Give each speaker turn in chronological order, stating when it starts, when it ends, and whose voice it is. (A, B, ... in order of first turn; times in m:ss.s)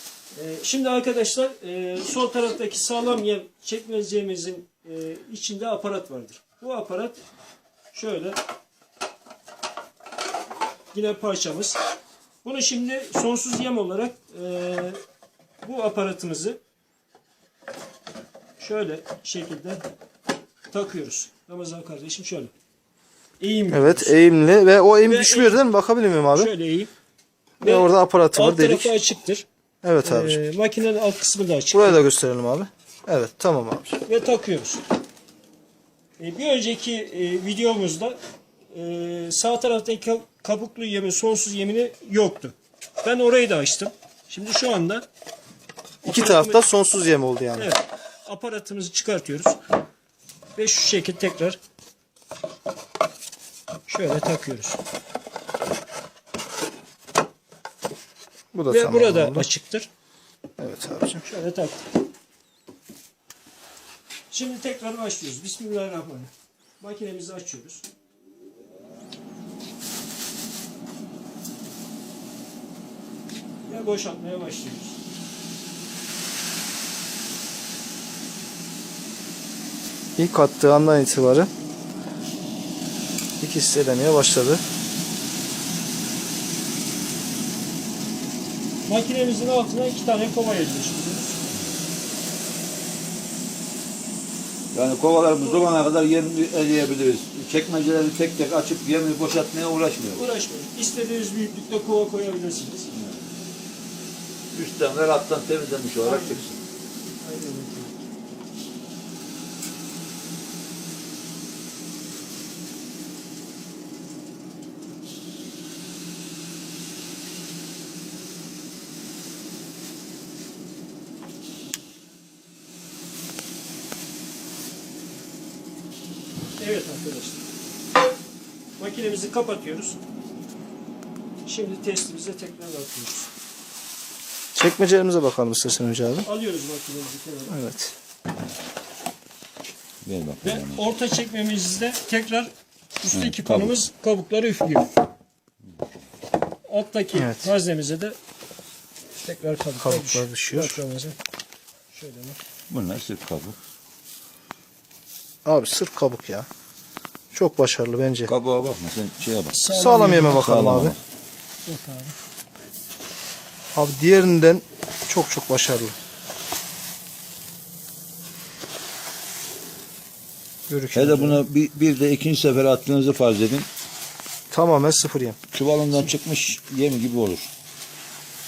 0:00.3-0:07.2 A
0:07.9-0:08.4 A
0:10.9-0:11.8 A
0:12.4-0:15.0 A
0:15.6-0:16.6 A
0:18.6-0:19.8 A
0:20.7-0:22.5 A
0:23.4-0:24.2 A
0:23.7-0:26.5 B
0:25.0-0:25.6 A
0:26.3-0:26.9 A
0:27.6-0:28.9 B
0:27.6-0:29.4 A
0:29.8-0:30.4 B
0:30.0-0:32.0 A
0:31.7-0:34.0 B
0:34.1-0:34.8 A
0:36.2-0:38.2 A
0:38.7-0:45.0 A
0:46.0-0:46.6 A
0:46.0-0:47.7 B
0:47.6-0:49.6 A
0:50.6-0:51.6 A
0:53.9-0:54.8 A
0:58.5-0:59.5 B
0:58.7-0:59.9 A
1:00.6-1:01.2 B
1:01.2-1:01.8 A
1:04.3-1:07.8 A
1:13.6-1:14.9 A
1:20.2-1:21.5 B
1:23.4-1:24.6 B
1:28.8-1:31.4 A
1:34.7-1:40.2 C
1:40.1-1:42.9 A
1:42.9-1:43.2 C
1:44.5-1:46.6 C
1:46.0-1:46.4 A
1:47.2-1:48.0 A
2:06.6-2:07.4 A
2:08.8-2:10.0 A
2:11.4-2:13.3 A
2:14.5-2:16.2 B
2:16.2-2:17.6 A
2:17.5-2:17.9 B
2:20.0-2:20.8 C
2:20.4-2:24.9 A
2:23.1-2:23.8 C
2:26.7-2:28.2 A
2:27.1-2:27.5 B
2:29.2-2:31.2 A
2:29.8-2:30.8 B
2:31.9-2:32.4 A
2:32.7-2:33.6 C
2:35.4-2:36.5 B
2:37.3-2:38.3 B
2:38.2-2:39.7 C
2:39.5-2:40.6 A
2:39.7-2:41.0 B
2:40.3-2:41.0 C
2:41.6-2:42.1 A
2:43.7-2:45.9 B
2:50.7-2:51.4 B
2:50.9-2:53.7 C
2:54.5-2:55.4 B
2:55.5-2:57.5 C